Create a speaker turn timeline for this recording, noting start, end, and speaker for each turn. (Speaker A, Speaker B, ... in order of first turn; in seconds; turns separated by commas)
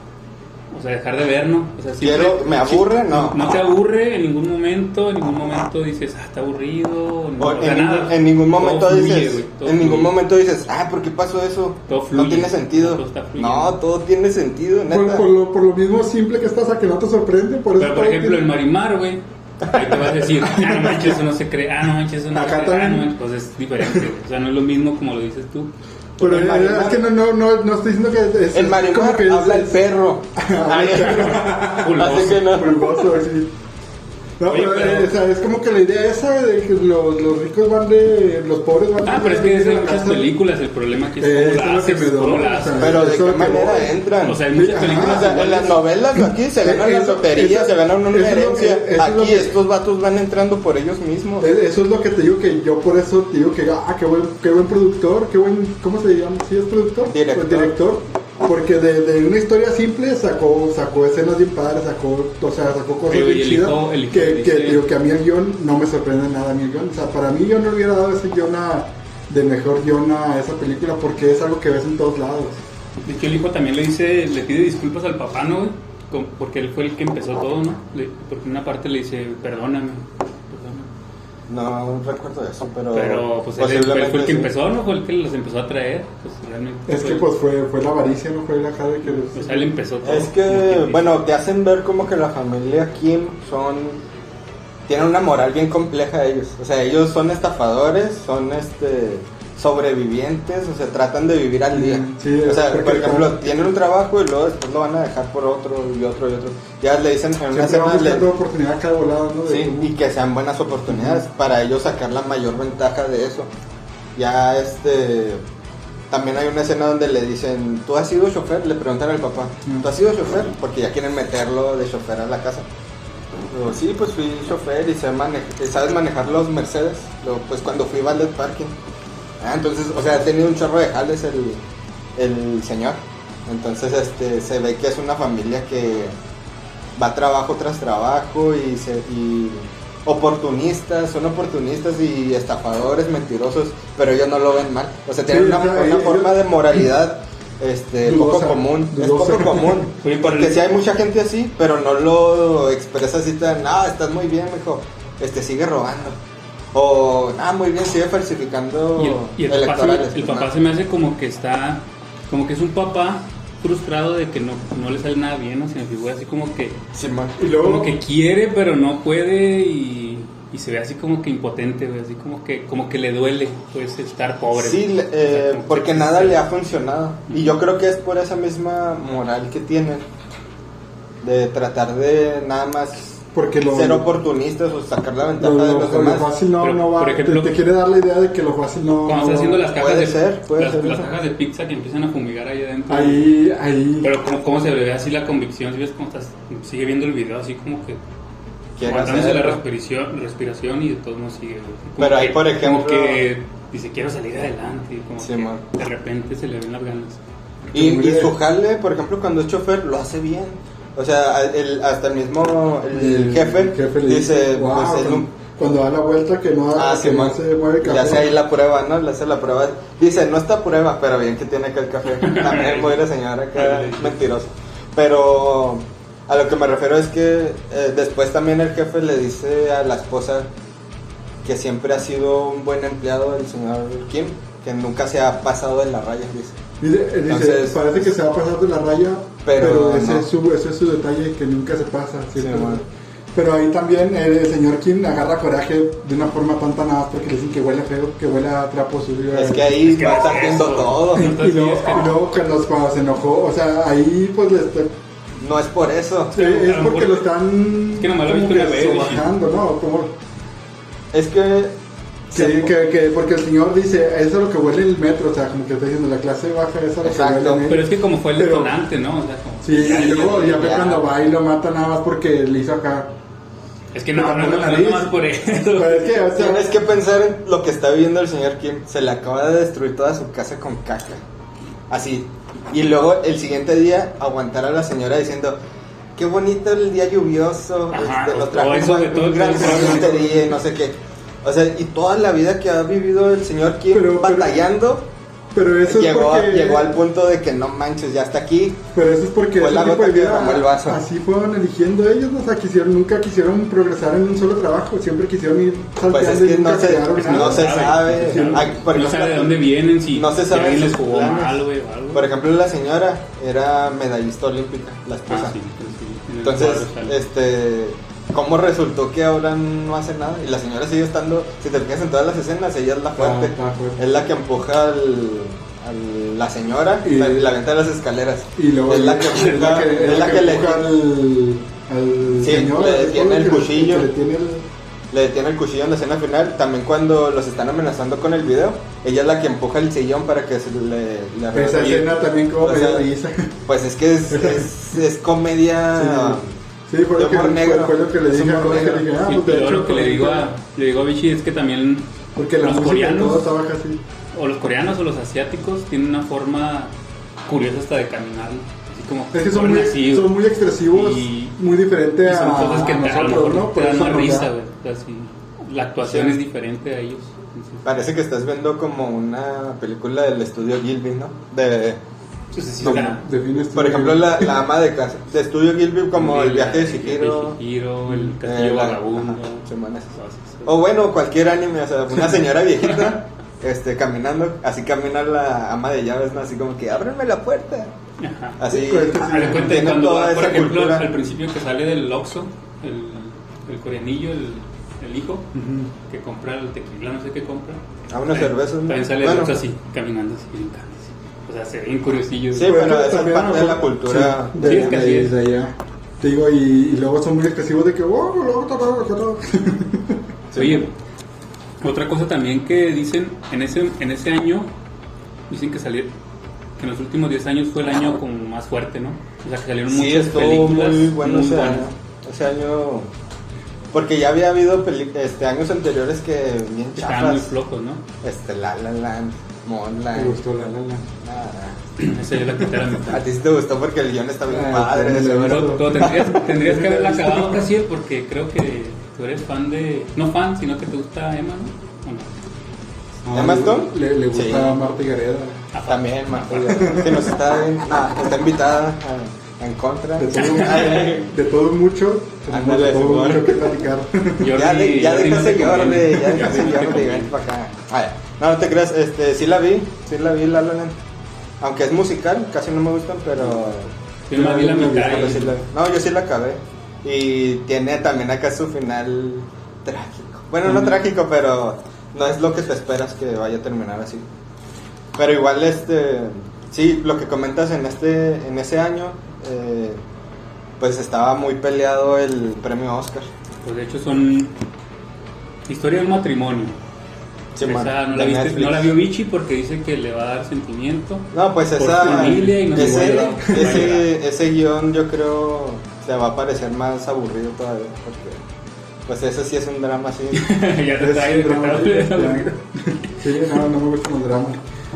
Speaker A: 0.7-10.1, Speaker B: 2.0-3.5, Speaker B: 7.4-15.3, Speaker A: 11.9-13.8, Speaker C: 14.9-18.4, Speaker A: 17.8-25.7, Speaker C: 20.4-21.2, Speaker C: 22.3-23.1, Speaker C: 26.2-29.8, Speaker B: 26.2-26.9, Speaker B: 28.5-33.0, Speaker C: 30.4-33.5, Speaker A: 31.3-32.4, Speaker C: 34.4-40.3, Speaker A: 34.5-35.1, Speaker A: 39.0-42.9, Speaker C: 41.2-44.0, Speaker B: 42.8-51.5, Speaker A: 44.2-45.6, Speaker C: 44.5-49.6, Speaker C: 51.4-72.6, Speaker B: 57.1-57.8, Speaker A: 63.1-64.8, Speaker A: 73.0-80.9, Speaker B: 81.5-84.5, Speaker A: 82.9-87.2, Speaker C: 86.9-89.7, Speaker A: 89.1-91.1, Speaker B: 90.0-94.0, Speaker B: 94.9-108.3, Speaker C: 101.7-103.7, Speaker C: 107.5-109.9, Speaker B: 109.5-113.5, Speaker C: 110.9-111.2, Speaker B: 114.2-115.4, Speaker B: 116.1-122.7, Speaker B: 123.5-128.7, Speaker B: 129.4-131.6, Speaker B: 132.2-136.2, Speaker B: 137.0-156.2, Speaker C: 145.3-146.8, Speaker C: 148.0-149.9, Speaker A: 150.0-150.6, Speaker B: 156.7-160.5, Speaker A: 159.0-166.8, Speaker B: 166.9-167.4, Speaker C: 167.4-168.0, Speaker A: 167.6-176.4, Speaker B: 174.5-180.1, Speaker A: 177.3-177.6, Speaker B: 181.2-186.3, Speaker C: 183.3-184.1, Speaker C: 185.4-189.7, Speaker A: 186.6-187.5, Speaker A: 189.1-193.3, Speaker B: 189.7-191.1, Speaker C: 192.9-194.1, Speaker A: 194.0-198.0, Speaker B: 198.8-199.6, Speaker A: 198.8-207.2, Speaker B: 202.0-203.3, Speaker B: 205.2-205.6, Speaker C: 207.7-208.3, Speaker B: 207.7-215.3, Speaker C: 212.9-218.3, Speaker B: 216.8-230.5, Speaker A: 222.1-223.0, Speaker A: 223.5-224.2, Speaker B: 231.4-236.6, Speaker C: 236.8-249.8, Speaker B: 237.3-238.1, Speaker B: 239.4-240.3, Speaker B: 242.4-242.8, Speaker B: 249.3-251.3, Speaker A: 249.9-252.2, Speaker C: 251.2-254.9, Speaker B: 255.4-256.4, Speaker C: 256.3-260.1, Speaker A: 256.3-257.2, Speaker A: 258.0-259.2, Speaker B: 261.1-261.8, Speaker B: 262.3-262.7, Speaker C: 262.3-268.8, Speaker B: 267.0-267.7, Speaker A: 267.7-271.0, Speaker C: 269.6-273.1, Speaker B: 269.8-271.0, Speaker A: 273.9-276.1, Speaker C: 274.1-276.7, Speaker B: 276.4-281.2, Speaker B: 281.9-285.6, Speaker B: 286.2-295.1, Speaker A: 287.9-290.1, Speaker C: 289.5-290.6, Speaker C: 293.9-294.7, Speaker C: 295.5-296.9, Speaker B: 295.9-298.8, Speaker C: 298.9-308.8, Speaker B: 299.6-301.0, Speaker B: 306.1-309.6, Speaker A: 307.1-312.3, Speaker B: 310.1-315.6, Speaker A: 315.3-317.2, Speaker B: 316.4-330.9, Speaker C: 323.2-324.0, Speaker C: 327.0-327.5, Speaker C: 328.6-334.7, Speaker B: 332.4-334.1, Speaker B: 335.1-343.1, Speaker C: 341.5-343.5, Speaker B: 343.7-346.6, Speaker C: 344.3-344.7, Speaker C: 345.9-350.5, Speaker B: 347.2-349.1, Speaker A: 349.2-352.1, Speaker C: 352.4-354.0, Speaker A: 352.6-353.5, Speaker A: 354.3-356.9, Speaker A: 357.5-360.4, Speaker C: 359.3-364.5, Speaker A: 360.9-361.6, Speaker A: 362.2-367.9, Speaker B: 366.1-366.4, Speaker B: 367.9-372.0, Speaker A: 372.5-373.2, Speaker C: 372.8-374.6, Speaker B: 372.8-373.2, Speaker B: 373.7-377.6, Speaker A: 376.1-379.6, Speaker B: 378.4-387.9, Speaker A: 380.2-380.7, Speaker A: 388.2-388.6, Speaker B: 388.6-391.1, Speaker C: 388.7-389.9, Speaker A: 389.1-395.5, Speaker C: 395.6-395.9, Speaker A: 396.1-402.8, Speaker B: 398.1-399.6, Speaker B: 402.5-405.1, Speaker C: 402.6-410.2, Speaker A: 404.6-405.3, Speaker B: 410.5-410.9, Speaker A: 410.6-410.9, Speaker A: 411.8-414.7, Speaker A: 415.5-416.1, Speaker A: 416.8-421.9, Speaker B: 419.9-423.1, Speaker B: 423.9-427.5, Speaker A: 427.0-428.0, Speaker B: 428.2-430.4, Speaker C: 430.1-431.1, Speaker B: 431.2-431.8, Speaker A: 432.0-433.3, Speaker B: 433.1-436.3, Speaker C: 434.5-437.6, Speaker A: 435.5-442.3, Speaker C: 443.2-445.6, Speaker B: 443.3-444.8, Speaker A: 445.7-447.2, Speaker B: 445.9-451.3, Speaker C: 446.7-447.3, Speaker C: 450.2-454.6, Speaker A: 450.4-451.1, Speaker B: 452.5-453.7, Speaker A: 454.4-457.3, Speaker B: 454.5-461.0, Speaker B: 461.6-463.9, Speaker A: 464.3-465.5, Speaker C: 464.3-465.5, Speaker B: 464.9-474.3, Speaker A: 470.7-471.0, Speaker B: 475.2-480.0, Speaker B: 480.8-483.3, Speaker A: 483.6-484.5, Speaker A: 485.7-486.8, Speaker B: 487.6-488.9, Speaker A: 487.6-494.1, Speaker B: 491.3-498.4, Speaker C: 492.2-493.9, Speaker B: 499.1-500.5, Speaker A: 500.4-502.6, Speaker C: 501.0-504.6